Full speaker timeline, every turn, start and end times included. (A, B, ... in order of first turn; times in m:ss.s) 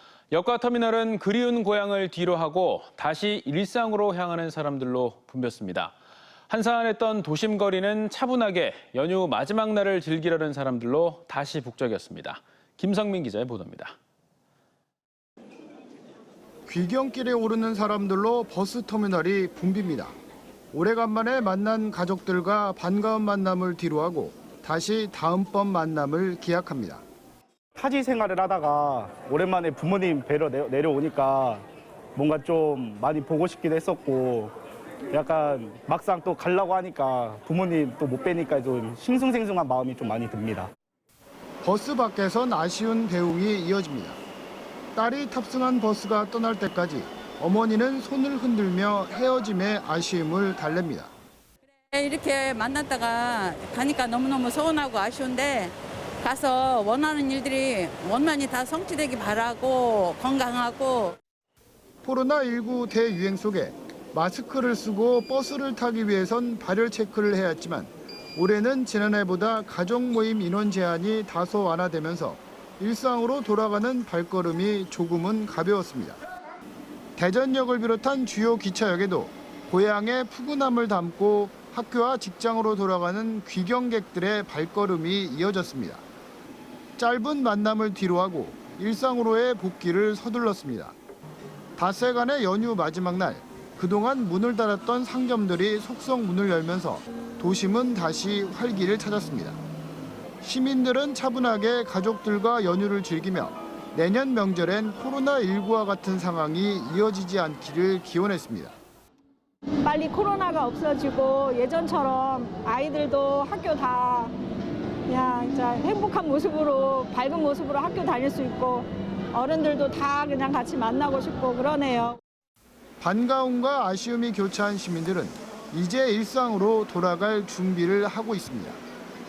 0:00.3-0:05.9 A
0:06.5-0:13.9 A
0:16.6-0:20.1 B
0:20.7-0:27.0 B
0:27.8-0:31.6 C
0:32.2-0:34.5 C
0:35.1-0:40.7 C
0:41.6-0:44.2 B
0:44.9-0:51.1 B
0:51.9-1:01.2 D
1:02.0-1:16.2 B
1:17.2-1:26.0 B
1:27.0-1:30.9 B
1:31.8-1:39.6 B
1:40.4-1:48.7 B
1:49.8-1:54.3 E
1:55.1-2:02.2 E
2:03.0-2:08.8 B